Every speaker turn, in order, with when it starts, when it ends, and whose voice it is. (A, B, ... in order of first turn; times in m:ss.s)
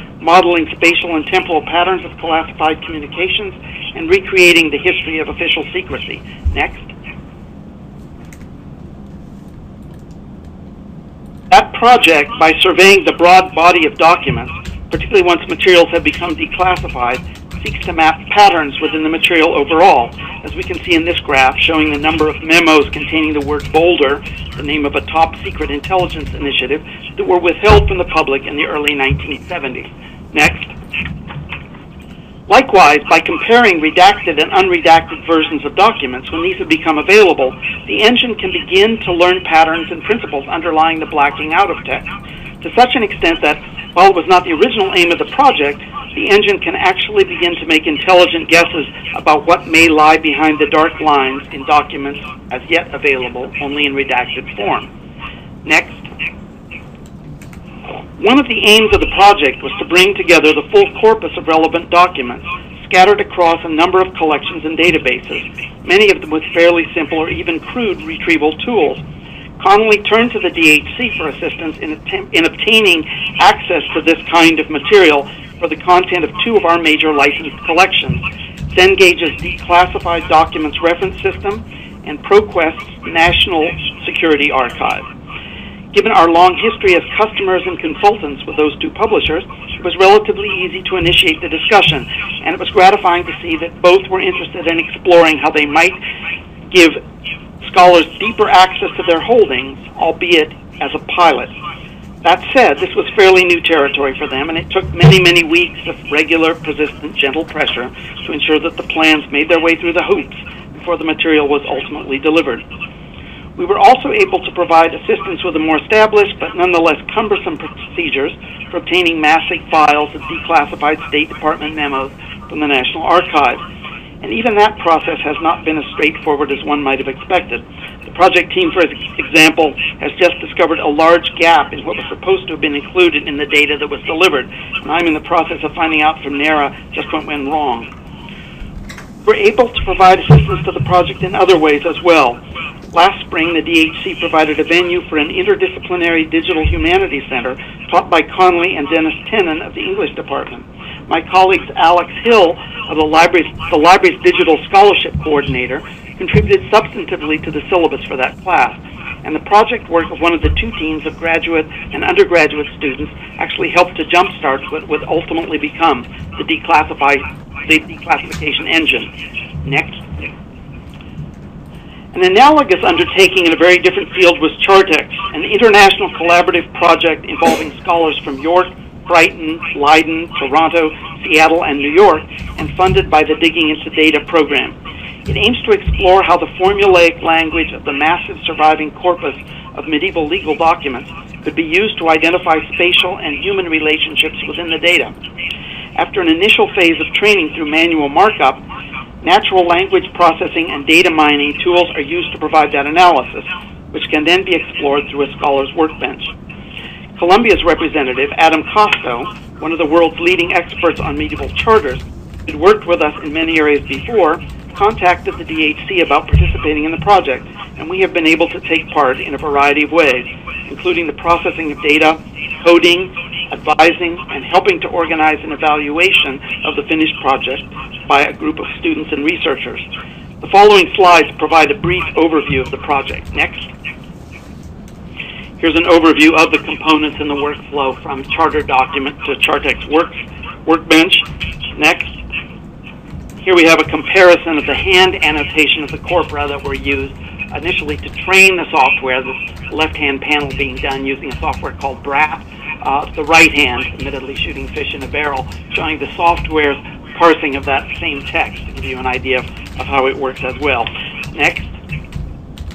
0:00.2-0:06.9 A
0:11.5-0:30.7 A
0:32.5-0:42.0 A
0:42.6-0:54.9 A
0:55.6-0:56.0 A
0:58.2-1:09.0 A
1:09.6-1:18.2 A
1:18.7-1:25.0 A
1:25.9-1:36.0 A
1:36.7-1:37.0 A
1:37.6-1:41.5 A
1:42.2-1:52.6 A
1:53.6-2:03.6 A
2:04.2-2:17.9 A
2:19.2-2:22.4 A
2:22.9-2:50.3 A
2:52.1-3:04.8 A
3:05.2-3:15.1 A
3:16.0-3:18.6 A
3:19.2-3:26.3 A
3:27.2-3:49.9 A
3:50.4-3:53.7 A
3:55.6-4:02.1 A
4:03.4-4:21.7 A